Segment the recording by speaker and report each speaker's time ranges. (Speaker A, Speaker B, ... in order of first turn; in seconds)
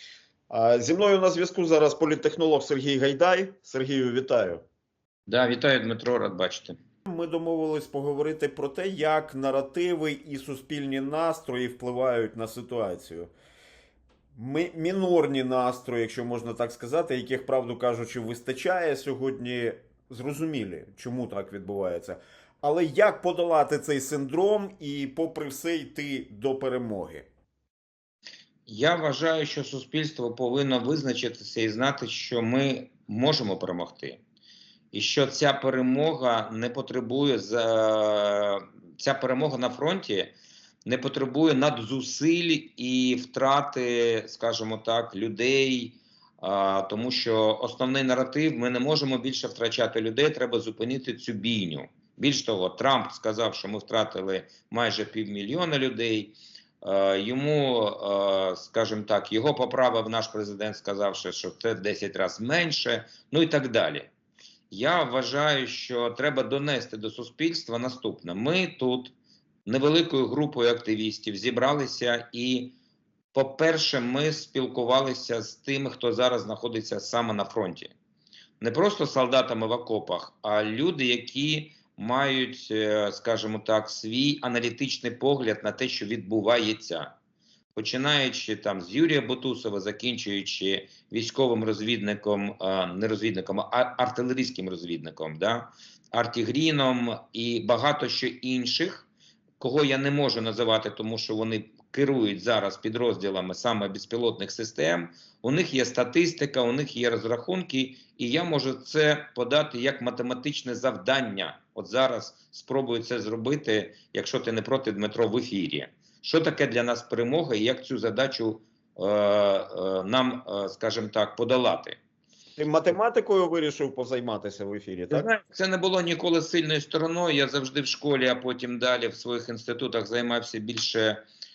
Speaker A: 0.5-4.6, 7.1-13.3, 14.3-27.3, 122.6-125.3
Speaker B: 5.3-6.8, 28.6-34.2, 34.9-40.3, 40.8-64.1, 64.7-69.1, 69.7-72.8, 73.3-77.9, 78.6-87.1, 87.8-99.1, 99.6-122.0, 125.1-131.2